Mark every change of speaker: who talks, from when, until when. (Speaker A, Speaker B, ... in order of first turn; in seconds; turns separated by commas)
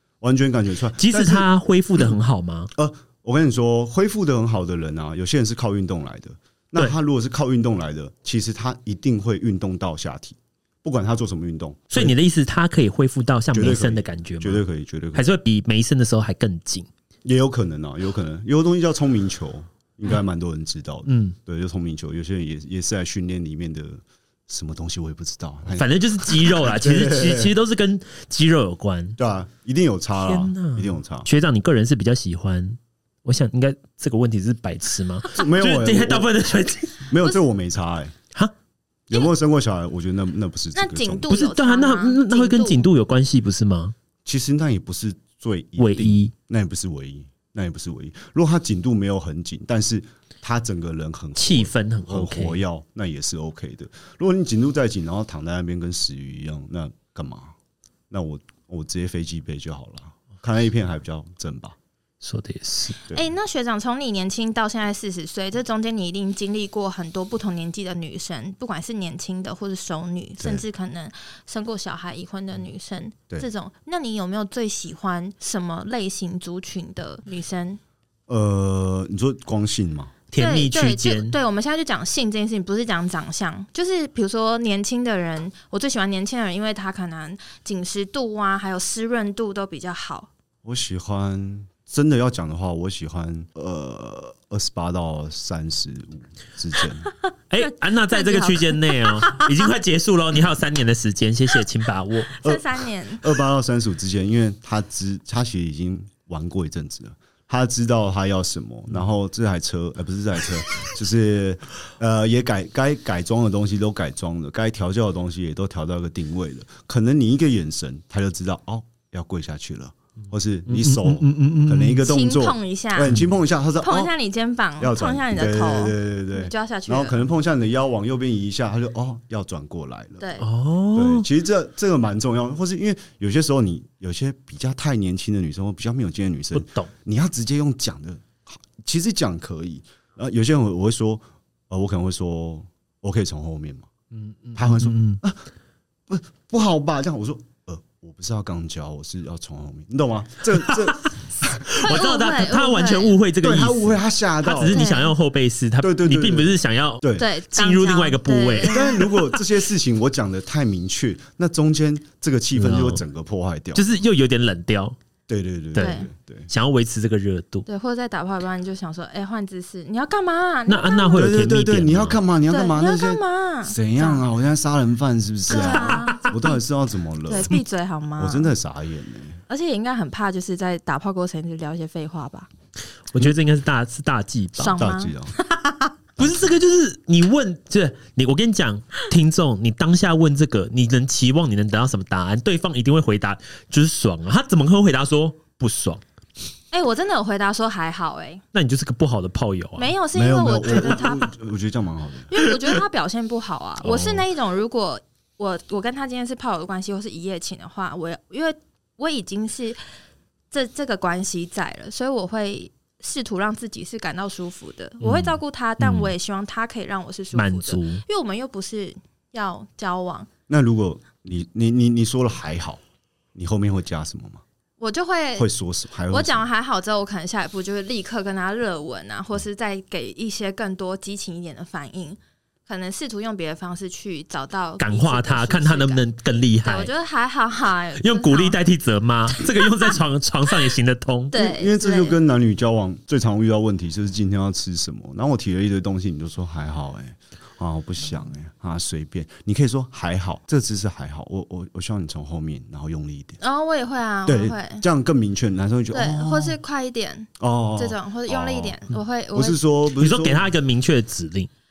Speaker A: 0.2-2.1, Speaker B: 1.0-2.7, Speaker A: 2.7-12.1, Speaker B: 11.9-14.6, Speaker A: 13.5-15.3, Speaker B: 15.1-16.9, Speaker A: 17.2-27.5, Speaker B: 21.1-21.4, Speaker B: 25.7-29.2, Speaker A: 29.2-31.3, Speaker B: 30.2-37.1, Speaker A: 35.3-36.3, Speaker A: 37.1-38.1, Speaker A: 39.1-41.3, Speaker C: 40.7-42.9, Speaker B: 41.3-43.9, Speaker A: 44.2-57.5, Speaker B: 45.8-46.3, Speaker B: 51.4-52.6, Speaker A: 58.1-61.8, Speaker B: 62.2-63.0, Speaker C: 63.1-77.8, Speaker A: 70.4-70.6, Speaker A: 78.3-80.1, Speaker B: 80.3-81.3, Speaker C: 80.3-90.3, Speaker A: 90.6-97.1, Speaker B: 97.5-102.3, Speaker C: 97.6-99.7, Speaker C: 102.3-103.2, Speaker A: 103.2-124.1, Speaker B: 120.7-122.0, Speaker C: 122.0-123.2, Speaker C: 123.8-127.2, Speaker A: 124.8-130.3, Speaker C: 130.2-130.5, Speaker B: 130.4-131.3, Speaker A: 130.9-143.9, Speaker B: 136.5-136.9, Speaker B: 144.1-145.2, Speaker A: 144.5-145.4, Speaker A: 146.1-151.5, Speaker B: 150.7-159.2, Speaker C: 151.8-153.2, Speaker A: 153.4-154.9, Speaker C: 154.7-155.1, Speaker A: 155.8-157.3, Speaker C: 157.1-159.1, Speaker A: 158.7-163.8, Speaker B: 162.6-163.0, Speaker B: 163.7-165.0, Speaker A: 165.3-166.5, Speaker B: 165.7-167.7, Speaker C: 165.8-166.1, Speaker C: 167.7-171.3, Speaker B: 170.7-172.2, Speaker A: 171.1-177.6, Speaker C: 172.5-174.2, Speaker C: 175.5-176.6, Speaker B: 175.6-176.3, Speaker C: 177.3-178.5, Speaker A: 178.2-179.4, Speaker C: 179.5-182.5, Speaker B: 183.1-184.8, Speaker C: 184.6-185.9, Speaker A: 184.8-185.3, Speaker A: 186.2-186.5, Speaker B: 186.2-196.0, Speaker C: 196.7-198.4, Speaker B: 198.5-199.9, Speaker C: 199.8-201.3, Speaker A: 200.1-202.3, Speaker C: 202.3-209.8, Speaker B: 203.8-204.2, Speaker C: 210.5-220.3, Speaker B: 215.0-216.1, Speaker B: 217.3-218.0, Speaker A: 220.5-222.8, Speaker A: 223.3-224.4, Speaker C: 224.8-225.5, Speaker A: 225.4-226.4, Speaker C: 226.1-236.0, Speaker B: 234.8-236.9, Speaker C: 236.6-238.6, Speaker B: 238.0-241.3, Speaker C: 241.3-242.2, Speaker A: 241.3-253.4, Speaker C: 253.4-254.8, Speaker A: 254.2-256.6, Speaker C: 255.9-259.6, Speaker A: 257.4-258.8, Speaker A: 259.3-260.5, Speaker B: 259.9-261.5